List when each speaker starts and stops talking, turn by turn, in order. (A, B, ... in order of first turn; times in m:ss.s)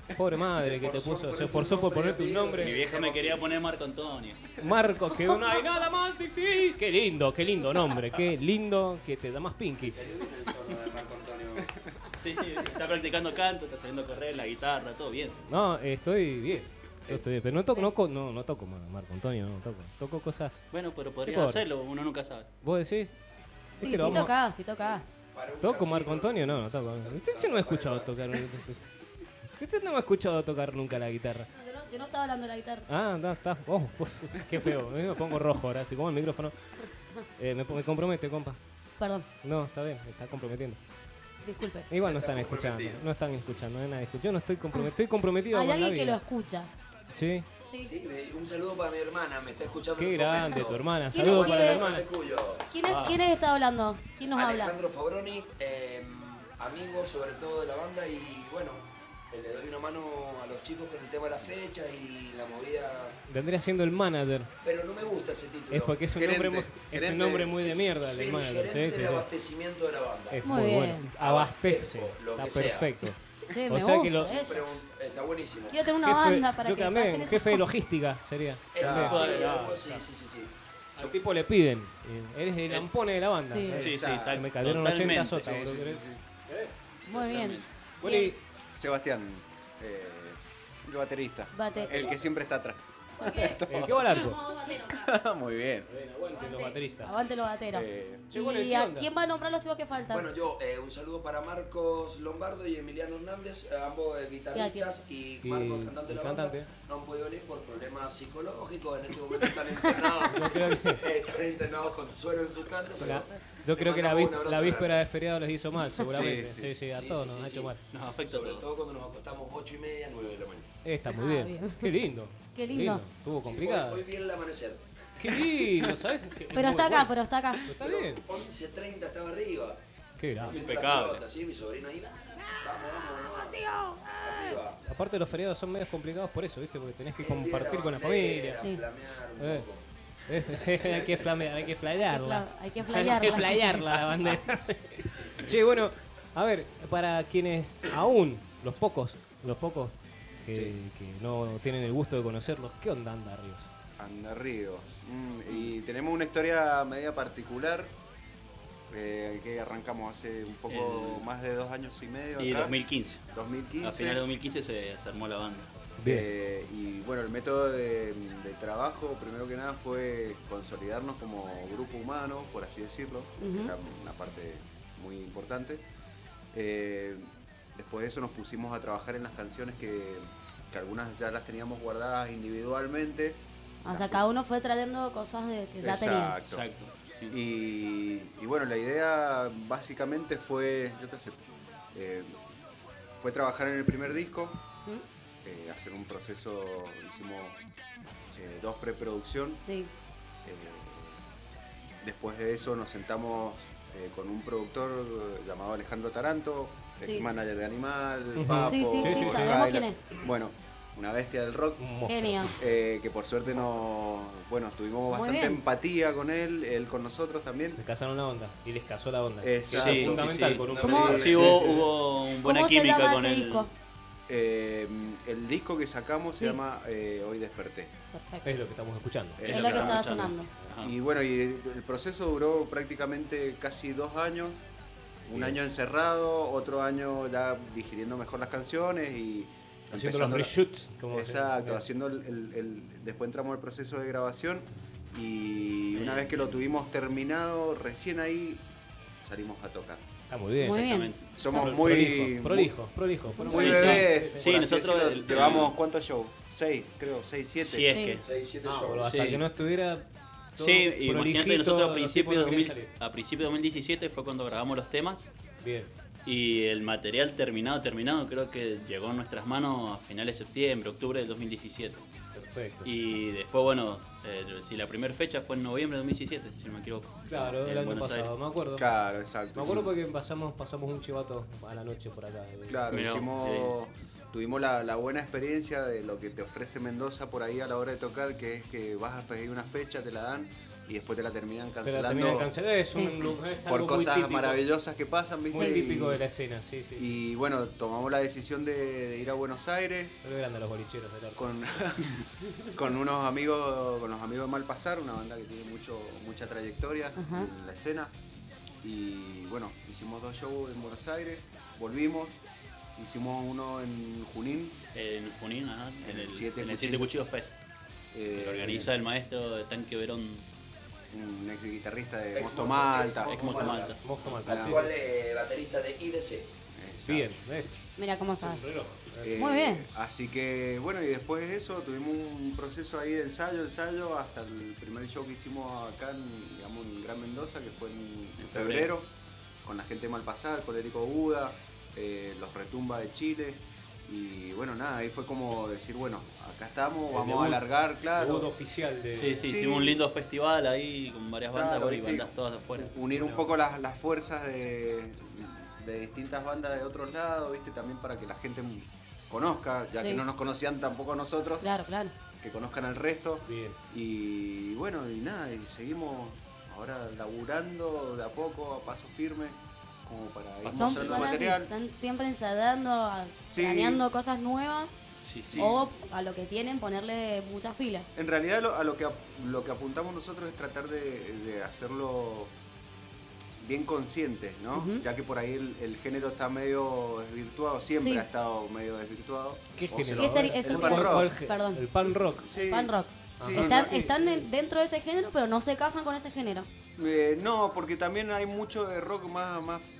0:00.2-0:02.8 A
0:00.5-0:03.5 B
0:02.6-0:04.4 C
0:04.6-0:10.0 A
0:09.8-0:11.7 B
0:12.2-0:15.4 C
0:15.5-0:20.6 A
0:20.7-0:22.5 C
0:21.2-0:21.6 A
0:22.6-0:23.1 A
0:23.8-0:24.3 A
0:23.8-0:25.0 D
0:25.3-0:28.2 B
0:25.6-0:28.8 A
0:29.6-0:31.5 A
0:31.5-0:32.9 D
0:32.9-0:36.5 A
0:37.4-0:38.6 A
0:39.0-0:39.3 D
0:39.4-0:40.8 A
0:41.4-0:41.9 D
0:41.9-0:46.2 A
0:42.0-0:43.0 B
0:45.5-0:46.7 D
0:47.1-0:47.4 A
0:47.6-0:47.9 D
0:47.8-0:52.7 B
0:50.0-0:52.0 A
0:51.1-0:51.9 D
0:52.7-0:54.7 D
0:52.8-0:53.2 A
0:54.3-1:03.2 B
1:03.3-1:04.5 A
1:04.6-1:06.0 B
1:05.7-1:09.2 A
1:06.1-1:07.6 E
1:07.6-1:10.4 B
1:10.3-1:14.4 A
1:10.4-1:11.1 D
1:11.2-1:12.9 B
1:13.5-1:14.6 D
1:14.2-1:15.8 B
1:15.7-1:17.7 D
1:16.0-1:20.0 A
1:18.7-1:20.5 B
1:18.8-1:19.2 E
1:18.8-1:19.8 C
1:21.0-1:26.7 A
1:23.5-1:23.8 D
1:23.7-1:25.4 C
1:23.7-1:26.2 E
1:27.1-1:28.3 D
1:27.1-1:27.6 C
1:28.0-1:28.4 A
1:28.7-1:34.2 E
1:31.5-1:32.1 D
1:31.7-1:32.1 A
1:33.2-1:35.1 D
1:33.7-1:34.4 A
1:34.9-1:35.9 E
1:35.9-1:37.1 A
1:36.3-1:40.3 D
1:37.7-1:38.2 E
1:38.3-1:39.1 A
1:40.1-1:55.0 B
1:44.5-1:44.9 D
1:45.4-1:46.7 A
1:50.3-1:51.0 A
1:53.0-1:57.8 A
1:56.0-1:56.8 E
1:56.9-1:57.7 B
1:57.9-1:58.6 C
1:58.2-2:00.7 B
2:00.8-2:04.0 A
2:01.1-2:02.0 D
2:02.5-2:03.0 D
2:03.4-2:05.5 B
2:05.2-2:07.1 A
2:06.5-2:07.7 D
2:07.6-2:08.2 A
2:07.7-2:09.8 B
2:10.2-2:10.6 A
2:10.4-2:14.8 B
2:10.5-2:11.2 C
2:14.8-2:18.6 A
2:17.2-2:19.8 B
2:19.4-2:19.7 A
2:20.3-2:33.7 A
2:20.5-2:21.3 B
2:22.0-2:23.8 D
2:34.0-2:37.9 E
2:38.9-2:42.7 E
2:40.7-2:41.2 C
2:42.4-2:43.2 C
2:43.3-2:44.2 E
2:43.8-2:45.7 C
2:46.0-2:46.3 A
2:46.0-2:55.8 E
2:53.4-2:53.7 D
2:56.5-3:04.2 E
3:03.8-3:06.4 D
3:05.8-3:06.6 E
3:06.5-3:07.4 C
3:07.3-3:12.3 E
3:13.2-3:14.6 E
3:15.4-3:17.6 E
3:18.3-3:19.6 E
3:19.6-3:19.9 D
3:20.4-3:21.2 E
3:22.0-3:31.9 E
3:28.3-3:29.6 A
3:28.6-3:30.0 D
3:31.8-3:32.6 A
3:32.1-3:32.5 D
3:32.5-3:37.8 E
3:35.1-3:35.6 D
3:37.8-3:41.9 A
3:39.4-3:40.3 E
3:39.7-3:43.7 C
3:40.0-3:41.8 B
3:40.8-3:41.3 D
3:42.4-3:43.7 D
3:44.3-3:47.9 E
3:48.1-3:48.5 D
3:48.4-3:49.5 A
3:49.4-3:50.3 E
3:49.4-3:50.9 C
3:49.4-3:50.5 D
3:50.8-3:54.6 E
3:55.3-4:00.6 E
3:55.3-3:55.6 A
3:59.9-4:01.8 A
4:01.1-4:08.6 E
4:05.9-4:06.3 C
4:09.2-4:10.0 E
4:10.3-4:10.8 A
4:10.6-4:11.1 D
4:10.6-4:11.2 C
4:11.4-4:12.7 E
4:11.5-4:14.5 A
4:13.4-4:13.7 D
4:13.5-4:18.0 E
4:13.5-4:15.7 C
4:17.6-4:18.2 C
4:17.9-4:18.2 D
4:18.1-4:19.1 B
4:18.6-4:20.0 A
4:19.0-4:19.4 C
4:20.6-4:22.9 A
4:20.6-4:25.3 C
4:25.6-4:25.9 A
4:26.2-4:32.0 C
4:32.3-4:32.9 A
4:32.8-4:38.3 C
4:37.3-4:38.8 A
4:38.7-4:39.9 E
4:39.5-4:43.1 A
4:42.7-4:52.5 E
4:42.9-4:43.7 C
4:51.8-4:54.6 A
4:53.6-4:56.2 E
4:55.5-4:57.2 A
4:57.0-5:00.2 E
5:00.2-5:01.5 A
5:01.4-5:08.1 E
5:07.2-5:07.5 D
5:08.8-5:12.4 E
5:13.0-5:14.8 E
5:14.9-5:17.6 C
5:16.0-5:17.1 E
5:18.1-5:18.9 E
5:18.3-5:20.4 C
5:21.1-5:23.7 E
5:22.3-5:26.5 B
5:23.2-5:24.0 C
5:23.4-5:24.9 A
5:24.4-5:24.8 E
5:26.7-5:27.3 E
5:27.0-5:27.8 A
5:28.0-5:28.6 D
5:28.4-5:29.4 A
5:29.2-5:39.1 E
5:29.4-5:29.8 D
5:38.4-5:38.9 C
5:39.6-5:48.5 E
5:47.1-5:47.6 A
5:48.2-5:49.4 A
5:49.1-5:52.9 C
5:49.4-5:50.0 E
5:51.5-6:01.7 E
5:53.1-5:53.5 A
6:01.6-6:02.1 D
6:02.4-6:11.7 E
6:03.4-6:03.8 A
6:10.6-6:11.4 C
6:10.7-6:15.0 D
6:13.5-6:14.0 E
6:15.2-6:15.7 C
6:15.5-6:15.8 E
6:15.5-6:18.1 D
6:18.2-6:22.5 E
6:23.6-6:31.3 E
6:24.7-6:25.0 D
6:28.0-6:28.2 D
6:29.8-6:32.5 A
6:30.2-6:31.8 D
6:32.4-6:33.8 E
6:32.5-6:36.7 D
6:33.4-6:34.4 A
6:37.0-6:39.9 E